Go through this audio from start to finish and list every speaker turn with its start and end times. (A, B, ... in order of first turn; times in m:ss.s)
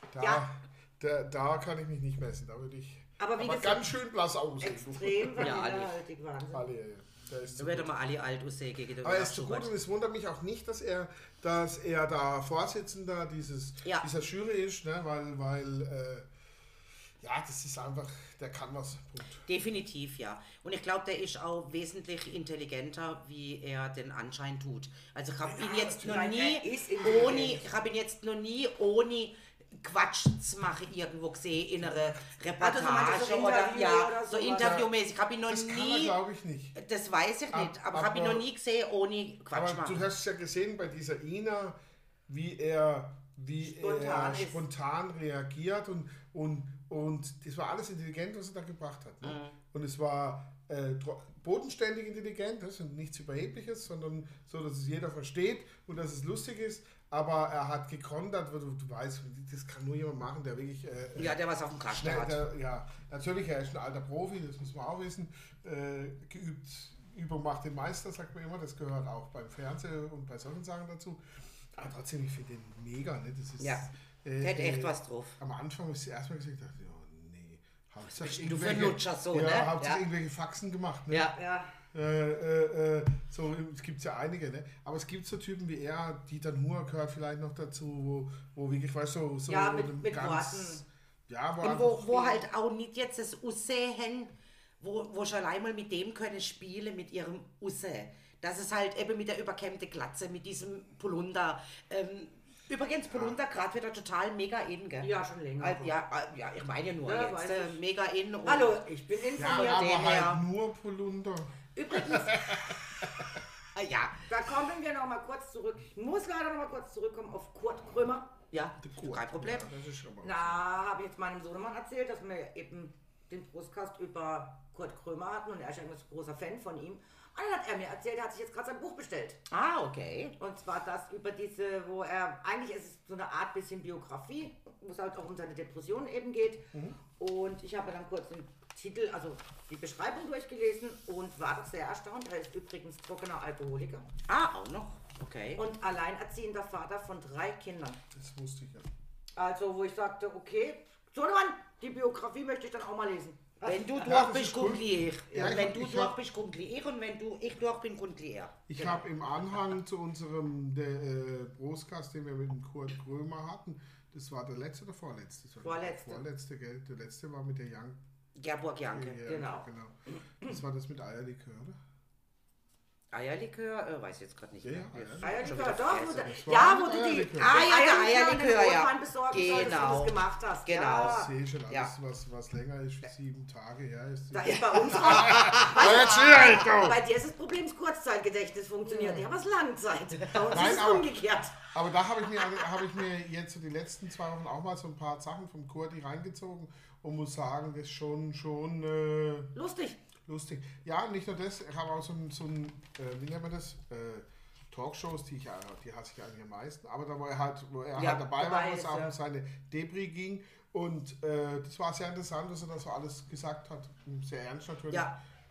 0:00.1-0:05.6 A
0:03.2-0:03.9 B
0:04.6-0:06.7 B
0:05.4-0:06.0 C
0:06.5-0:08.0 A
0:07.6-0:09.7 C
0:09.0-0:16.3 A
0:17.2-0:19.5 A
0:19.5-0:36.2 C
0:25.4-0:26.3 A
0:25.7-0:27.6 B
0:32.6-0:34.8 B
0:34.6-0:34.9 A
0:35.5-0:36.8 A
0:36.8-0:40.0 C
0:37.5-0:38.5 A
0:39.5-0:41.8 A
0:42.3-1:11.2 A
0:43.6-0:44.6 B
0:49.2-0:49.6 C
1:01.2-1:02.4 C
1:11.8-1:21.3 A
1:13.6-1:13.9 C
1:14.4-1:15.4 C
1:18.0-1:20.0 C
1:21.1-1:21.4 C
1:21.3-1:21.8 B
1:21.9-1:32.4 A
1:29.5-1:30.8 B
1:31.6-1:48.8 C
1:43.1-1:43.4 A
1:45.0-1:46.0 B
1:47.1-1:47.8 B
1:48.5-1:49.9 B
1:49.4-1:53.4 A
1:49.4-1:50.4 C
1:51.8-1:52.6 B
1:53.8-1:54.2 C
1:54.3-1:58.3 B
1:58.5-1:59.6 C
1:58.8-2:00.6 A
2:00.2-2:09.4 B
2:09.5-2:10.4 C
2:10.4-2:24.1 B
2:16.7-2:17.0 A
2:24.3-2:25.6 C
2:25.6-2:28.0 B
2:28.1-2:28.9 A
2:29.4-2:34.0 B
2:33.6-2:38.6 C
2:34.0-2:36.2 A
2:38.7-2:48.0 A
2:38.8-2:39.0 B
2:45.6-2:46.2 B
2:48.4-2:49.2 C
2:48.9-2:51.8 A
2:49.2-2:49.7 B
2:53.1-2:56.3 C
2:54.6-2:55.5 A
2:55.2-3:01.3 B
2:56.2-2:57.6 A
2:57.4-3:01.9 C
3:01.0-3:07.0 A
3:04.3-3:11.7 B
3:05.2-3:05.8 C
3:10.4-3:11.1 A
3:11.7-3:19.6 A
3:19.6-3:20.0 B
3:20.3-3:35.2 A
3:28.0-3:28.2 C
3:28.2-3:29.1 B